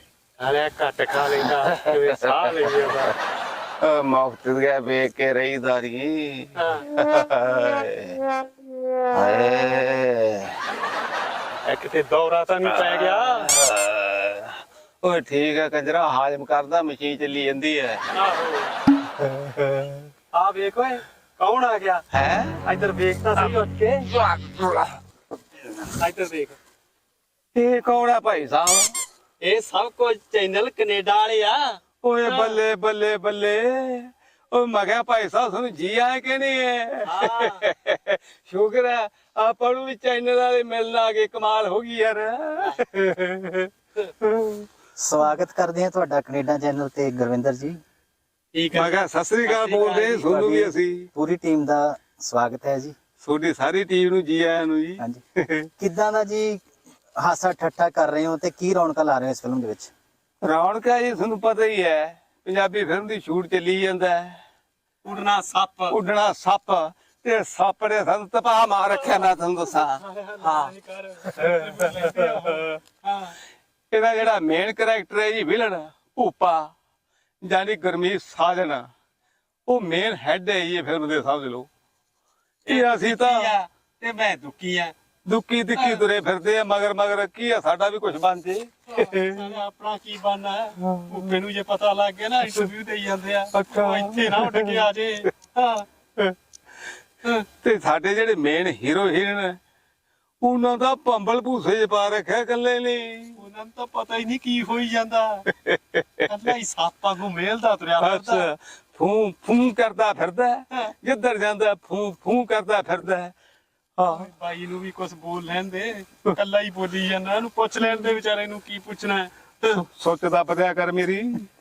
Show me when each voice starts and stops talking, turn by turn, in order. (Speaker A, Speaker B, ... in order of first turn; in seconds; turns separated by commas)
Speaker A: 0.4-3.1, Speaker B: 1.6-2.4, Speaker B: 3.8-8.2, Speaker A: 6.6-6.8, Speaker B: 9.1-10.6, Speaker A: 11.6-13.6, Speaker B: 12.6-18.0, Speaker A: 18.1-18.7, Speaker B: 19.2-20.1, Speaker A: 20.3-22.1, Speaker B: 22.1-22.6, Speaker A: 22.6-24.1, Speaker A: 25.9-26.6, Speaker B: 27.6-28.9, Speaker A: 29.4-32.6, Speaker B: 32.0-44.7, Speaker A: 37.0-37.6, Speaker C: 45.0-47.8, Speaker A: 48.5-50.3, Speaker B: 48.7-51.1, Speaker C: 50.2-53.0, Speaker B: 53.2-55.7, Speaker C: 55.8-56.6, Speaker C: 57.2-59.9, Speaker B: 60.4-64.4, Speaker A: 65.0-66.0, Speaker B: 65.9-70.7, Speaker A: 70.0-73.3, Speaker B: 71.3-72.7, Speaker B: 73.9-76.7, Speaker B: 77.4-78.9, Speaker B: 79.7-81.7, Speaker B: 82.7-83.6, Speaker A: 82.7-84.9, Speaker B: 85.3-89.6, Speaker A: 85.8-86.0, Speaker A: 89.3-95.9, Speaker B: 90.8-91.4, Speaker B: 93.5-94.9, Speaker B: 97.6-99.6, Speaker B: 100.4-103.4, Speaker A: 103.4-105.5, Speaker B: 105.6-106.3, Speaker A: 106.3-108.5, Speaker B: 108.0-113.3, Speaker B: 114.0-114.3, Speaker A: 114.1-119.8, Speaker B: 119.6-121.5